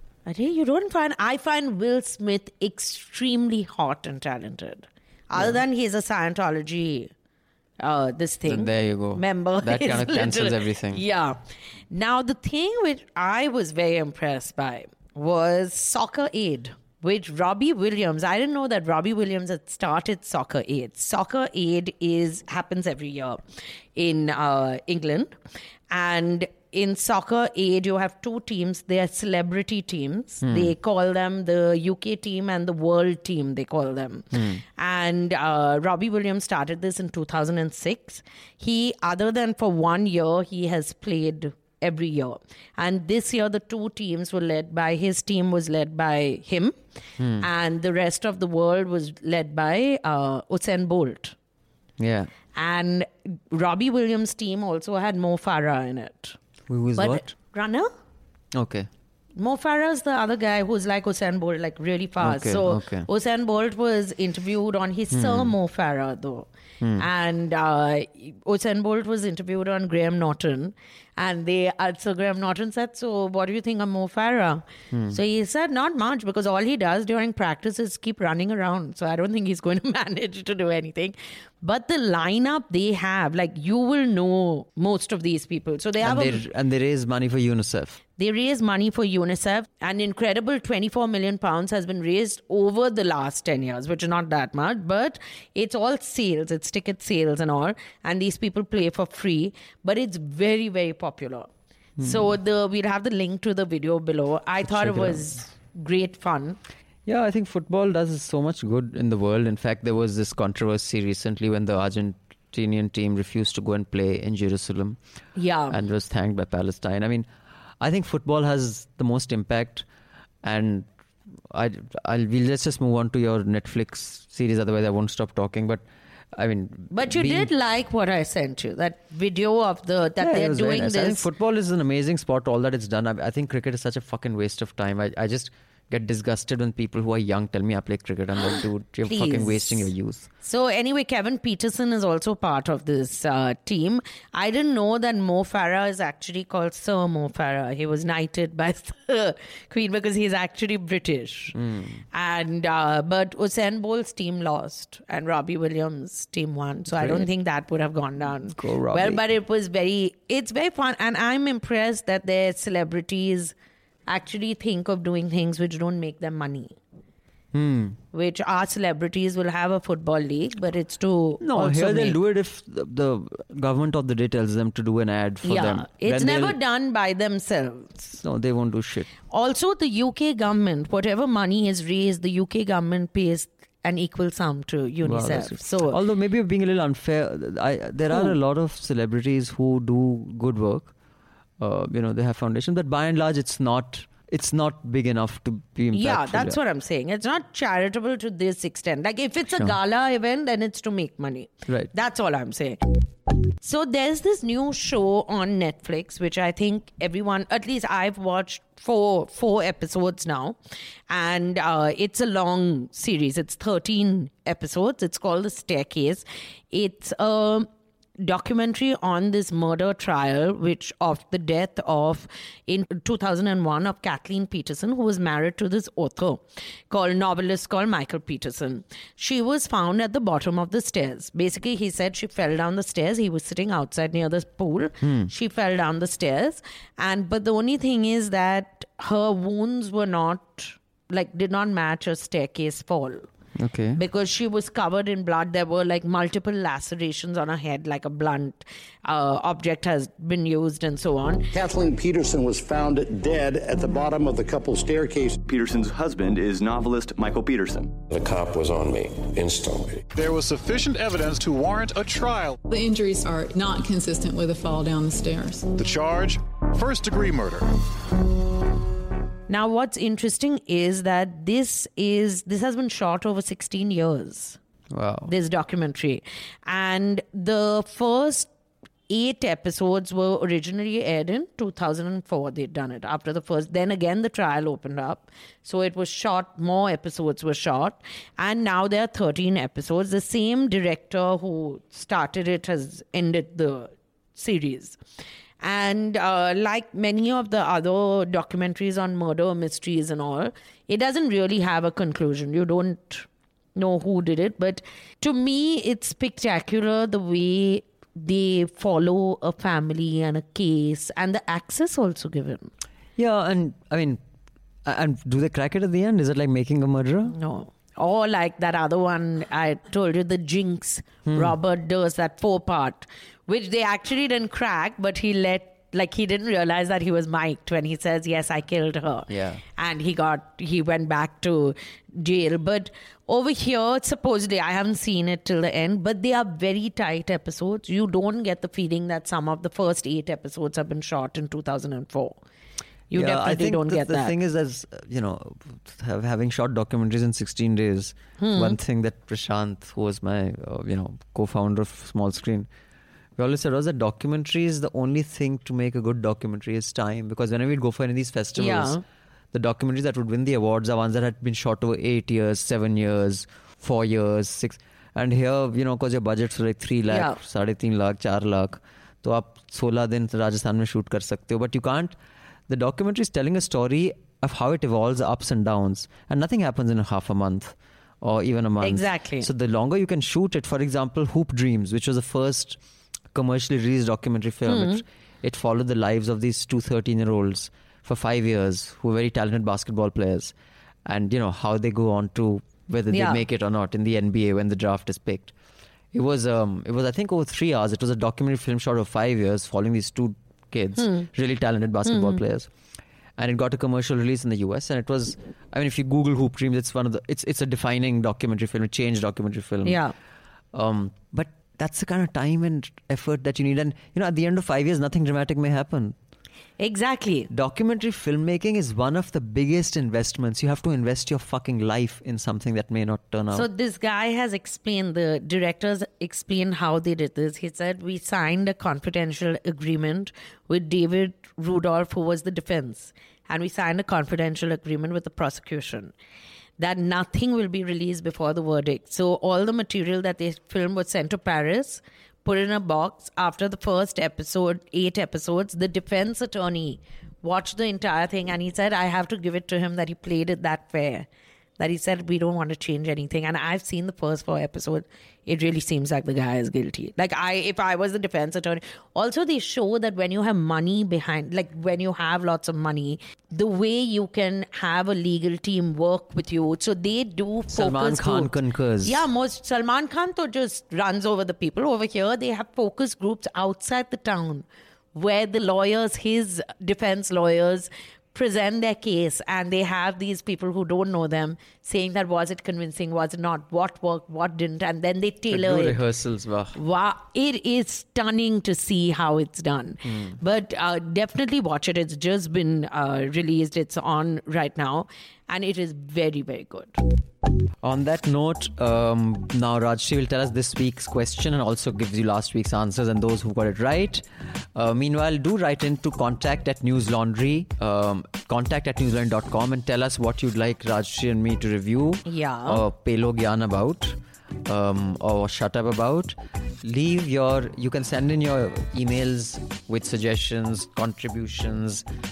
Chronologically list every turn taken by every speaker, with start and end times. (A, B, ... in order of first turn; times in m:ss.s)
0:00.3-0:07.1 A
0:05.3-0:05.6 B
0:07.8-0:11.4 A
0:08.5-0:11.0 B
0:11.9-0:23.4 A
0:24.0-0:25.3 A
0:25.9-0:46.7 A
0:30.4-0:30.7 B
0:34.3-0:34.6 B
0:47.2-0:47.4 B
0:47.4-0:51.3 A
0:52.0-0:52.3 B
0:52.5-0:56.4 A
0:56.7-0:57.3 B
0:57.0-0:57.9 A
0:58.5-0:58.9 B
0:59.4-1:06.5 A
1:02.2-1:03.1 B
1:05.1-1:05.5 B
1:06.8-1:07.1 B
1:07.0-1:26.4 A
1:14.9-1:15.2 B
1:26.0-1:28.0 B
1:28.2-1:41.5 A
1:42.0-1:46.6 A
1:42.0-1:42.3 B
1:44.6-1:45.3 B
1:47.0-1:55.0 B
1:55.4-1:55.8 A
1:55.7-1:57.3 B
1:57.8-1:59.9 B
2:00.4-2:00.9 B
2:01.5-2:07.5 B
2:06.9-2:11.2 A
2:10.2-2:20.3 B
2:19.0-2:19.9 A
2:20.4-2:31.6 A
2:31.5-2:32.0 B
2:32.1-2:43.5 A
2:36.9-2:37.3 B
2:38.5-2:39.2 B
2:44.1-2:46.8 A
2:47.5-2:48.0 B
2:48.1-2:52.2 A
2:51.4-2:56.6 B
2:55.4-2:58.2 A
2:58.2-2:59.1 B
2:59.3-3:06.0 A
3:05.0-3:10.9 B
3:11.6-3:16.6 B
3:15.9-3:22.8 A
3:23.6-3:30.6 A
3:31.1-3:37.7 A
3:38.2-4:03.3 A
3:55.0-3:55.3 B
4:03.6-4:04.0 B
4:04.0-4:11.5 A
4:11.5-4:15.4 C
4:15.4-4:18.0 D
4:18.1-4:20.0 E
4:20.1-4:22.6 F
4:22.6-4:25.7 G
4:25.8-4:27.7 F
4:29.5-4:34.6 A
4:34.9-4:35.3 B
4:35.3-4:38.5 A
4:39.1-4:55.0 A
4:55.6-5:12.7 A
5:13.2-5:14.2 B
5:14.8-5:17.4 B
5:17.3-5:42.4 A
5:21.3-5:21.6 B
5:29.3-5:29.6 B
5:43.1-5:44.3 A
5:43.1-5:52.7 B
5:48.4-5:48.8 A
5:53.4-5:59.0 B
5:58.6-5:59.0 A
5:59.5-6:12.1 B
6:07.1-6:07.4 A
6:12.7-6:22.8 B
6:18.8-6:19.5 A
6:23.3-6:30.5 B
6:24.7-6:25.0 A
6:31.0-6:35.5 B
6:33.1-6:33.4 A
6:36.1-6:42.7 B
6:41.0-6:41.2 A
6:42.1-6:42.4 A
6:43.4-6:50.0 B
6:49.8-6:50.1 A
6:50.7-6:56.2 B
6:56.8-6:57.5 A
6:57.5-7:03.7 B
7:03.5-7:16.1 A
7:16.8-7:31.3 A
7:31.8-7:48.5 A
7:47.7-7:49.2 B
7:49.0-8:06.0 A
8:05.5-8:06.8 B
8:06.8-8:17.0 A
8:10.0-8:10.4 B
8:17.8-8:42.0 B
8:32.3-8:32.8 A